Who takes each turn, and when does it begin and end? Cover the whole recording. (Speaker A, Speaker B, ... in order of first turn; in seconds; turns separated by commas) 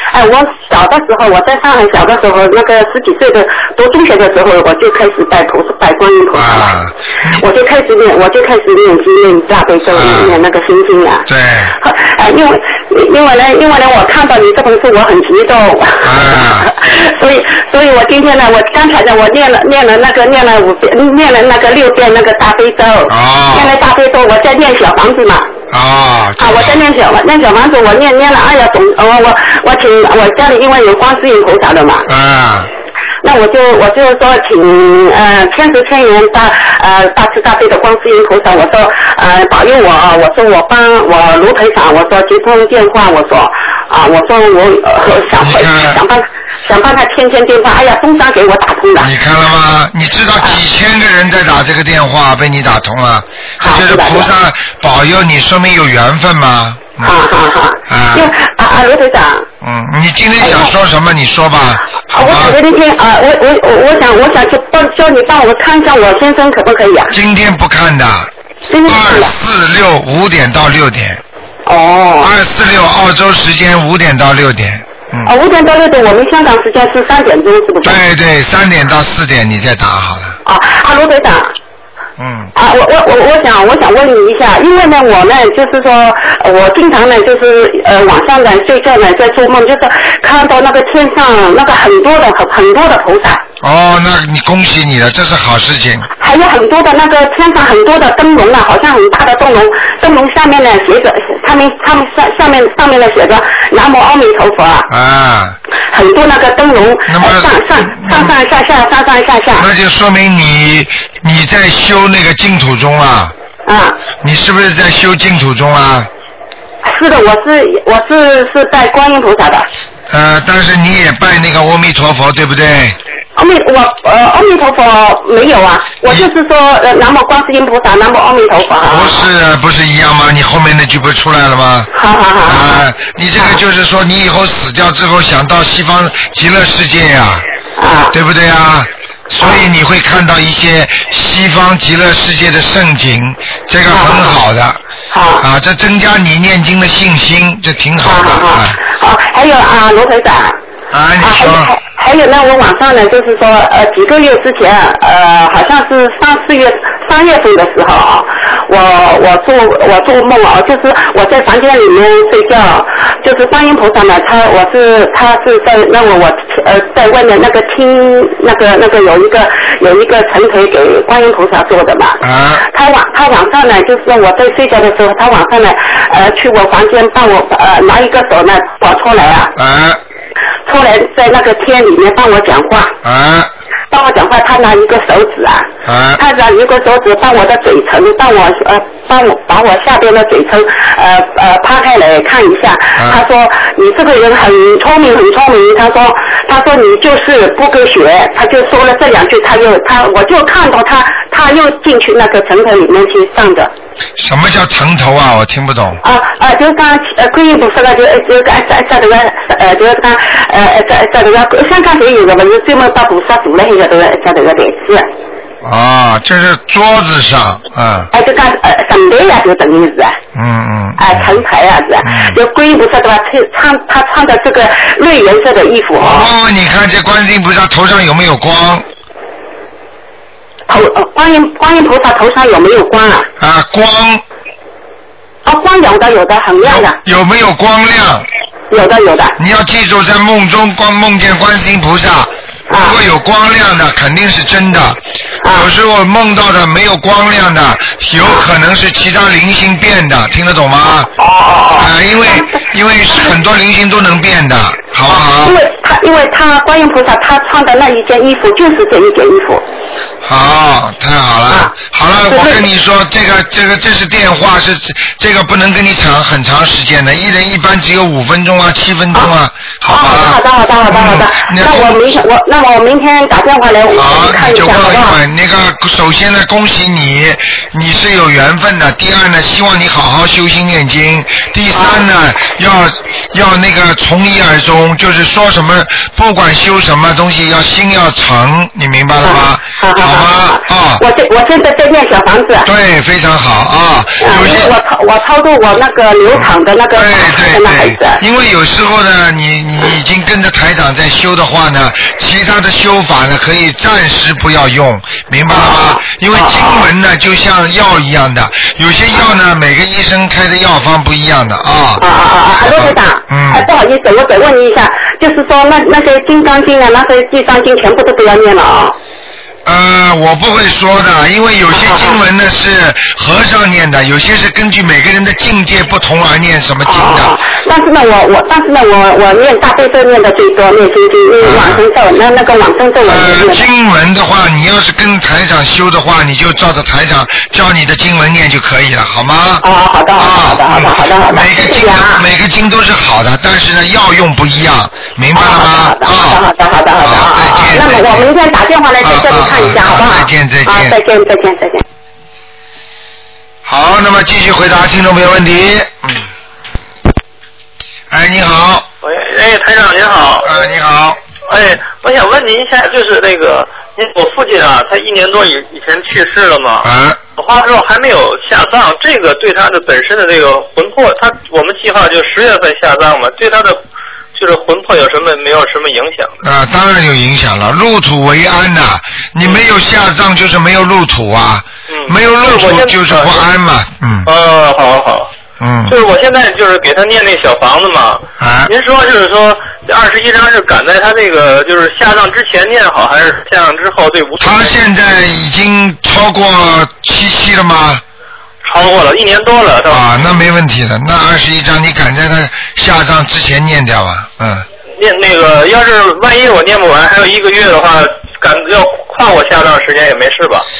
Speaker A: 0.1-6.7, Speaker B: 6.3-7.4, Speaker A: 7.3-25.5, Speaker B: 9.9-10.4, Speaker B: 11.2-11.7, Speaker B: 16.0-16.7, Speaker B: 23.1-23.7, Speaker B: 25.7-26.8, Speaker A: 26.4-32.1, Speaker B: 32.0-32.7, Speaker A: 33.2-49.1, Speaker B: 45.4-46.0, Speaker B: 49.0-57.1, Speaker A: 53.6-54.3, Speaker A: 57.0-59.5, Speaker B: 57.9-58.3, Speaker B: 59.6-62.6, Speaker A: 60.4-60.7, Speaker A: 62.1-67.1, Speaker B: 67.1-68.3, Speaker A: 68.7-69.3, Speaker B: 68.8-71.2, Speaker A: 71.7-72.3, Speaker B: 72.2-75.3, Speaker A: 75.2-78.0, Speaker B: 77.8-80.4, Speaker A: 80.4-81.5, Speaker B: 82.2-82.5, Speaker A: 82.5-93.4, Speaker B: 93.6-96.1, Speaker A: 96.2-104.9, Speaker B: 104.9-105.6, Speaker A: 105.9-109.7, Speaker B: 107.1-108.3, Speaker B: 109.6-113.3, Speaker A: 113.7-114.0, Speaker B: 114.2-116.1, Speaker A: 116.8-119.7, Speaker B: 120.1-123.0, Speaker A: 123.3-129.2, Speaker B: 128.8-131.9, Speaker A: 131.9-132.8, Speaker B: 132.4-137.4, Speaker A: 137.8-138.1, Speaker B: 138.1-144.8, Speaker A: 143.9-144.4, Speaker A: 145.1-145.4, Speaker B: 145.4-148.8, Speaker A: 148.0-150.6, Speaker B: 150.9-151.7, Speaker A: 151.2-179.5, Speaker B: 172.2-172.7, Speaker B: 179.6-180.0, Speaker A: 180.7-182.9, Speaker B: 183.0-183.5, Speaker A: 183.9-203.7, Speaker B: 185.8-186.2, Speaker B: 192.9-193.2, Speaker B: 204.2-206.0, Speaker A: 206.0-215.1, Speaker B: 215.6-218.1, Speaker A: 218.1-220.2, Speaker B: 220.3-221.4, Speaker A: 221.0-226.3, Speaker B: 222.0-222.4, Speaker B: 226.0-228.8, Speaker A: 230.7-233.3, Speaker B: 233.4-234.2, Speaker A: 235.4-236.9, Speaker B: 236.6-238.2, Speaker A: 238.7-239.3, Speaker B: 239.4-251.1, Speaker A: 242.7-243.0, Speaker A: 245.4-245.7, Speaker A: 251.2-252.4, Speaker B: 251.7-255.6, Speaker A: 255.1-259.6, Speaker B: 260.2-272.0, Speaker A: 261.5-261.7, Speaker A: 262.3-262.6, Speaker A: 269.9-275.2, Speaker B: 273.9-291.0, Speaker A: 281.7-282.0, Speaker A: 289.2-292.7, Speaker B: 292.6-294.8, Speaker A: 294.2-298.2, Speaker B: 296.4-312.0, Speaker A: 305.5-306.9, Speaker A: 312.0-318.9, Speaker B: 312.6-313.7, Speaker B: 319.6-327.4, Speaker A: 321.7-322.2, Speaker A: 326.8-333.6, Speaker B: 331.4-331.8, Speaker B: 333.0-339.6, Speaker A: 339.6-342.2, Speaker B: 340.1-346.4, Speaker A: 345.3-351.8, Speaker B: 347.0-348.3, Speaker B: 349.0-351.0, Speaker B: 353.6-356.3, Speaker B: 358.1-358.9, Speaker C: 359.0-360.5, Speaker B: 360.4-361.2, Speaker C: 361.5-373.8, Speaker B: 366.8-367.2, Speaker C: 374.3-376.4, Speaker B: 376.4-384.3, Speaker C: 381.9-383.5, Speaker C: 384.2-385.3, Speaker B: 385.6-385.9, Speaker C: 385.9-394.8, Speaker B: 388.4-388.7, Speaker B: 394.4-398.0, Speaker C: 398.6-400.3, Speaker B: 399.9-404.6, Speaker C: 405.0-410.7